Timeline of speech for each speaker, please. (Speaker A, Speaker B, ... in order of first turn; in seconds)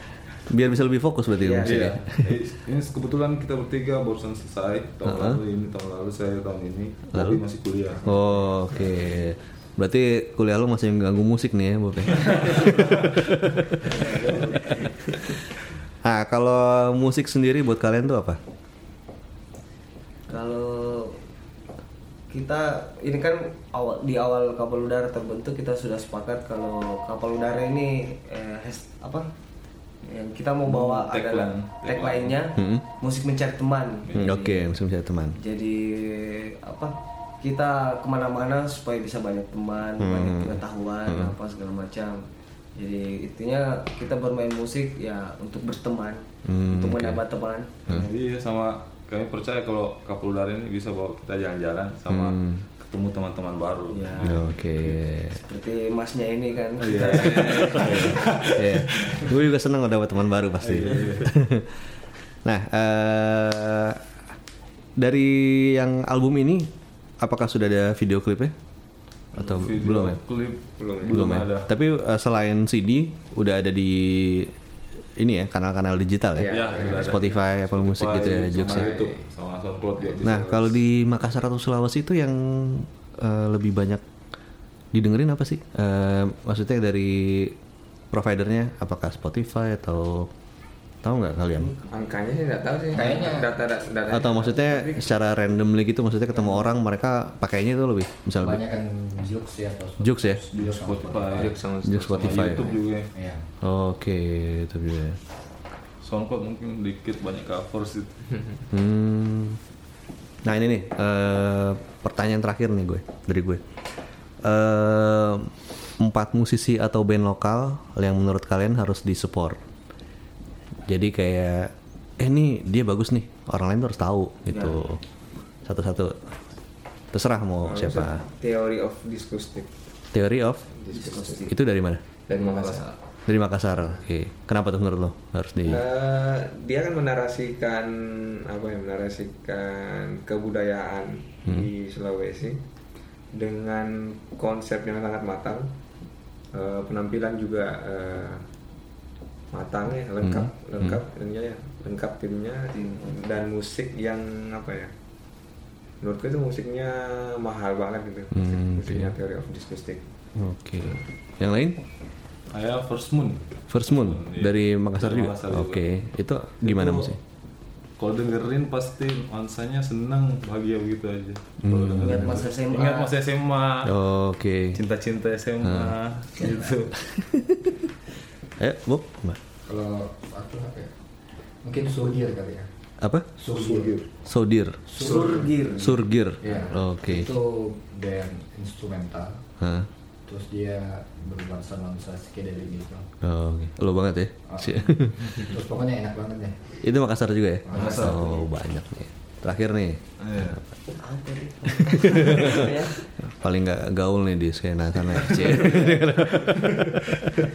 Speaker A: 0.5-2.4, 5.0-5.4, 7.1-7.4, 8.0-14.2, 16.0-18.4, 32.6-32.8, 34.2-35.4, 40.0-41.3, 46.5-47.2, 52.1-52.6, 54.2-55.4, 57.8-61.8, 62.4-64.0, 65.0-66.7, 67.2-68.5, 69.3-70.2, 71.1-74.5, 75.2-78.9, 80.2-84.0, 84.9-87.5, 88.1-90.3, 91.0-91.8, 94.1-98.6, 100.0-100.4, 101.8-102.7, 103.6-105.2, 108.7-109.6, 110.4-113.6, 114.4-119.6, 120.9-125.0, 125.6-126.2, 127.1-128.2, 130.1-130.7, 131.4-132.0, 133.2-135.8, 150.2-151.0, 158.3-159.2, 160.3-161.8, 163.7-167.2, 171.6-172.4, 173.8-174.8, 175.6-176.0, 177.1-177.8, 178.6-179.4, 183.0-183.3, 184.2-184.8, 185.8-187.3, 189.6-189.9, 193.2-195.5, 196.8-200.6, 201.7-207.4
Speaker B: 1.4-2.0, 20.3-21.2, 22.3-29.3, 30.0-34.7, 35.4-48.1, 53.9-54.5, 55.3-59.2, 124.5-124.9, 130.9-131.5, 132.3-132.9, 152.7-153.2, 171.9-173.1, 185.0-186.0, 201.0-203.0, 205.2-206.0
Speaker C: 1.6-8.1, 30.6-32.5, 34.0-34.4, 47.9-54.7, 56.8-58.6, 60.6-61.3, 69.4-71.7, 76.5-80.8, 100.5-103.1, 106.0-108.1, 162.5-165.9, 166.6-167.1, 168.0-174.0, 174.7-177.0, 183.5-184.0, 197.7-198.4, 200.2-200.6
Speaker D: 57.0-57.8, 70.8-71.3, 76.4-77.3, 78.6-79.2, 91.9-95.1, 101.3-102.7, 127.6-129.7, 130.7-131.5, 132.3-132.9, 135.6-142.6, 143.3-145.7, 146.5-148.5, 149.5-154.9, 156.0-160.0, 185.0-185.4
Speaker E: 92.9-93.5, 98.4-101.5, 103.1-103.4, 179.6-181.0, 181.6-182.7, 183.4-184.0, 184.9-185.5, 186.4-189.4, 190.2-193.1, 194.5-196.8, 197.7-198.3